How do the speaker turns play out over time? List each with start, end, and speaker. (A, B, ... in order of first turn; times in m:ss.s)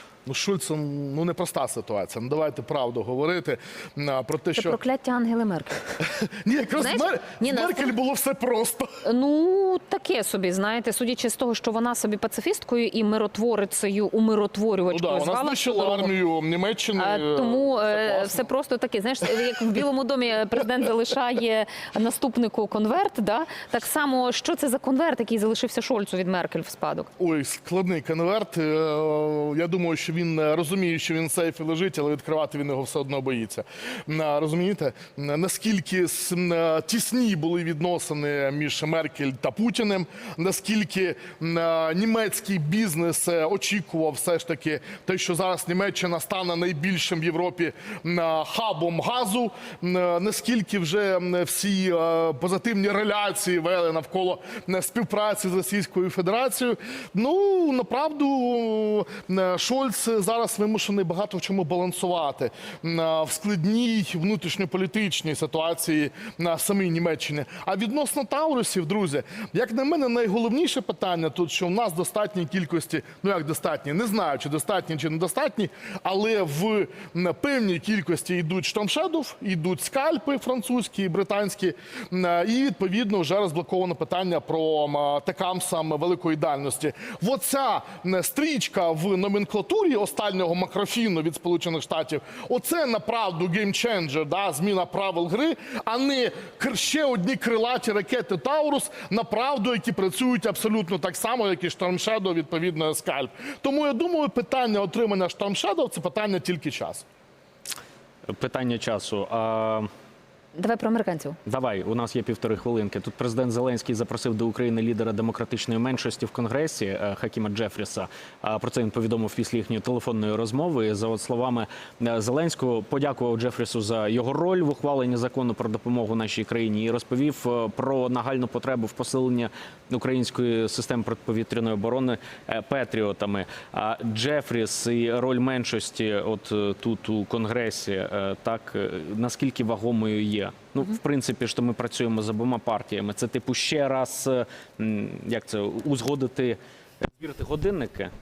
0:00.2-0:04.8 A
0:04.6-0:05.9 B
0:06.0-0:08.9 A
0:06.8-0:07.9 B
0:09.0-0:16.1 B
0:14.9-0:18.5 A
0:17.0-0:27.1 B
0:27.2-1:47.0 A
1:48.3-1:49.9 C
1:50.6-1:51.4 B
1:51.4-2:28.1 C